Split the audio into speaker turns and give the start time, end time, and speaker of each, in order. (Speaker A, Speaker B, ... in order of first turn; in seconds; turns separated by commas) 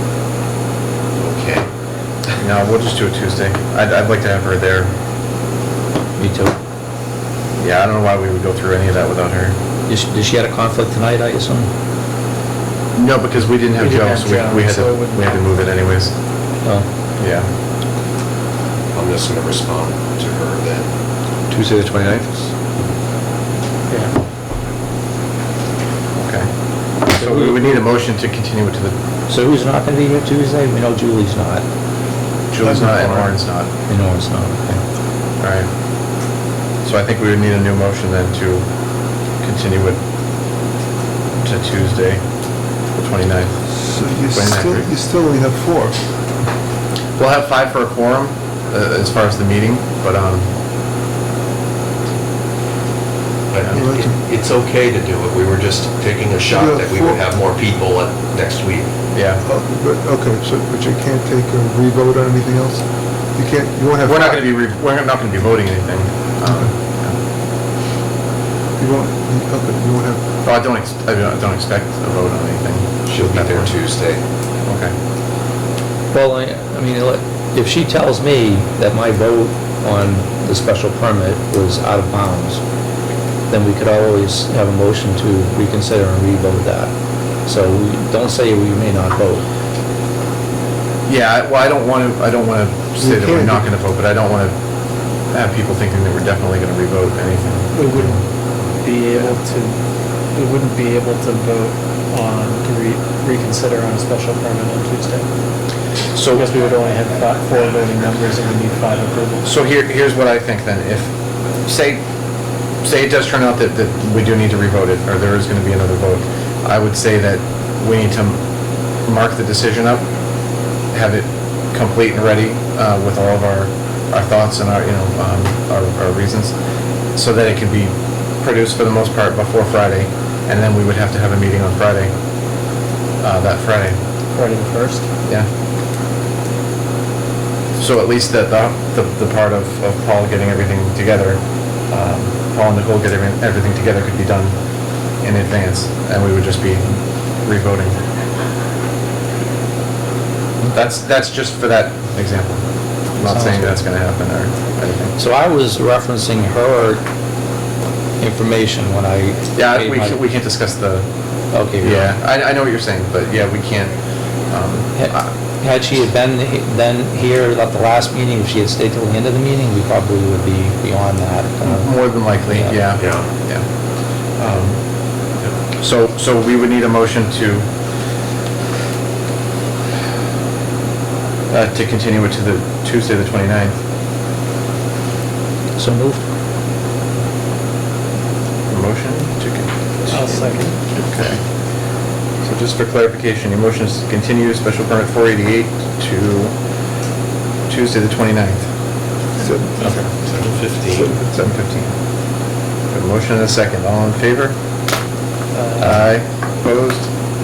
Speaker A: 1.1-1.7, Speaker B: 2.4-4.9, Speaker C: 6.2-6.5, Speaker B: 7.5-9.6, Speaker C: 9.9-11.7, Speaker B: 12.9-16.1, Speaker D: 13.8-15.4, Speaker B: 17.2-17.5, Speaker A: 18.9-20.9, Speaker C: 22.1-22.4, Speaker D: 23.9-24.1, Speaker B: 26.1-26.5, Speaker B: 27.1-28.9, Speaker C: 27.1-27.8, Speaker C: 29.3-31.6, Speaker B: 32.5-33.7, Speaker D: 32.7-33.2, Speaker C: 33.9-34.8, Speaker B: 35.4-35.7, Speaker B: 36.8-38.6, Speaker B: 39.4-40.0, Speaker B: 41.4-42.2, Speaker B: 42.9-43.6, Speaker E: 43.7-46.0, Speaker B: 44.3-44.9, Speaker B: 47.2-50.5, Speaker A: 53.5-58.9, Speaker E: 53.7-54.2, Speaker E: 56.5-57.2, Speaker B: 59.1-59.4, Speaker E: 59.4-64.5, Speaker B: 64.0-67.2, Speaker E: 68.8-70.2, Speaker B: 70.4-73.7, Speaker A: 73.0-74.2, Speaker B: 74.7-74.9, Speaker C: 76.1-82.6, Speaker C: 83.5-86.9, Speaker C: 87.5-89.5, Speaker B: 91.1-94.5, Speaker E: 93.0-93.6, Speaker B: 95.3-98.2, Speaker D: 97.7-98.2, Speaker D: 98.8-99.8, Speaker D: 100.3-105.3, Speaker B: 106.1-106.5, Speaker D: 106.3-109.5, Speaker B: 109.4-111.1, Speaker B: 111.6-112.0, Speaker B: 112.8-118.4, Speaker B: 119.0-120.0, Speaker B: 120.9-126.5, Speaker B: 127.2-132.1, Speaker B: 133.2-134.0, Speaker D: 134.3-135.1, Speaker B: 137.8-144.5, Speaker B: 145.2-148.0, Speaker B: 150.7-152.6, Speaker B: 153.1-155.1, Speaker C: 153.2-153.8, Speaker C: 155.2-157.0, Speaker C: 158.2-160.2, Speaker B: 159.5-161.1, Speaker C: 161.5-162.1, Speaker B: 161.8-163.9, Speaker B: 164.5-165.2, Speaker C: 164.9-172.8, Speaker B: 171.6-173.6, Speaker A: 172.9-173.3, Speaker B: 174.4-174.8, Speaker B: 175.8-177.6, Speaker B: 181.5-183.8, Speaker C: 185.8-186.2, Speaker B: 188.7-191.4, Speaker D: 190.1-190.8, Speaker B: 192.4-196.6, Speaker B: 197.7-198.7, Speaker E: 199.4-200.0, Speaker B: 199.8-200.1, Speaker A: 200.2-201.1, Speaker E: 200.9-201.4, Speaker B: 201.3-201.9, Speaker B: 202.9-204.6, Speaker D: 205.5-205.9, Speaker B: 205.8-207.1